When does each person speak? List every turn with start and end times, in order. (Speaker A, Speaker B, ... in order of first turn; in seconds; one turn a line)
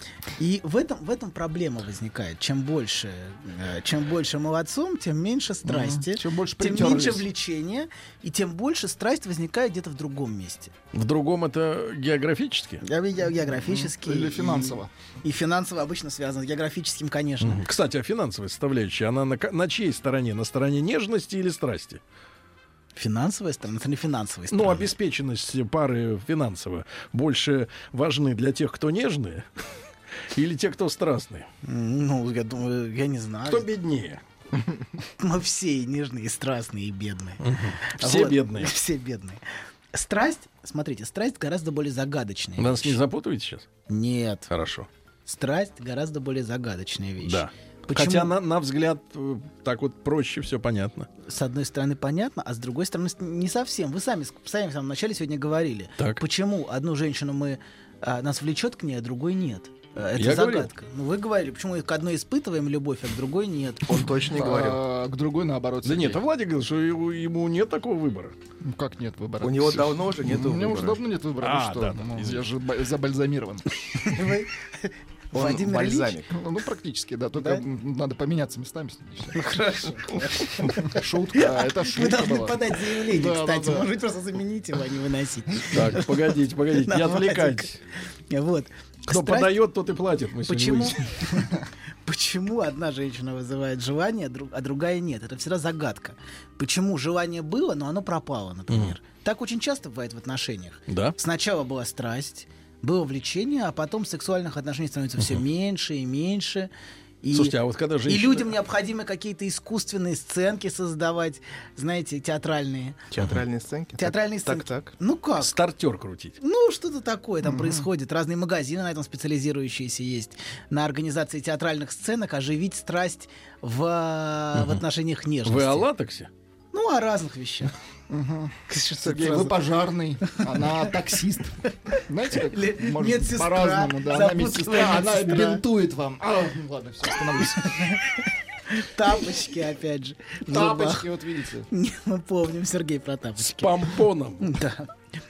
Speaker A: 0.4-10.7
Speaker B: 5.7-7.2
Speaker C: 10.9-12.8
Speaker A: 12.8-17.6
Speaker B: 13.5-14.9
Speaker C: 17.4-22.0
Speaker A: 23.0-24.9
Speaker C: 24.5-29.5
Speaker C: 30.4-31.5
Speaker A: 31.6-33.6
Speaker C: 33.5-34.2
Speaker A: 35.2-37.4
Speaker C: 37.4-38.7
Speaker A: 38.0-39.4
Speaker A: 39.9-43.0
Speaker C: 42.6-43.7
Speaker A: 43.9-44.5
Speaker C: 44.5-44.9
Speaker A: 45.3-48.3
Speaker C: 47.2-51.1
Speaker A: 51.3-64.1
Speaker C: 56.0-56.2
Speaker C: 60.2-60.7
Speaker D: 63.9-64.8
Speaker B: 64.3-66.2
Speaker C: 65.8-68.3
Speaker B: 68.6-73.7
Speaker D: 69.4-71.0
Speaker C: 71.4-72.5
Speaker A: 74.0-76.2
Speaker D: 75.3-76.2
Speaker B: 76.3-79.3
Speaker A: 77.4-77.6
Speaker A: 79.3-86.1
Speaker B: 81.0-83.9
Speaker C: 85.7-87.8
Speaker A: 86.8-87.7
Speaker A: 88.3-89.5
Speaker C: 89.1-91.0
Speaker A: 90.5-91.5
Speaker A: 92.1-106.7
Speaker C: 98.7-99.0
Speaker C: 100.9-101.2
Speaker A: 107.2-107.5
Speaker C: 107.3-108.5
Speaker A: 108.1-113.0
Speaker D: 113.2-114.9
Speaker A: 114.0-115.6
Speaker C: 115.4-116.4
Speaker A: 116.4-125.9
Speaker B: 117.4-117.8
Speaker C: 124.5-124.8
Speaker C: 125.5-126.3
Speaker A: 126.7-127.7
Speaker B: 128.1-131.5
Speaker A: 128.7-129.6
Speaker A: 130.3-130.9
Speaker A: 131.9-135.6
Speaker B: 132.1-137.9
Speaker A: 137.4-138.0
Speaker A: 138.8-141.1
Speaker B: 140.5-141.7
Speaker A: 141.7-143.8
Speaker C: 143.4-144.5
Speaker A: 144.4-144.9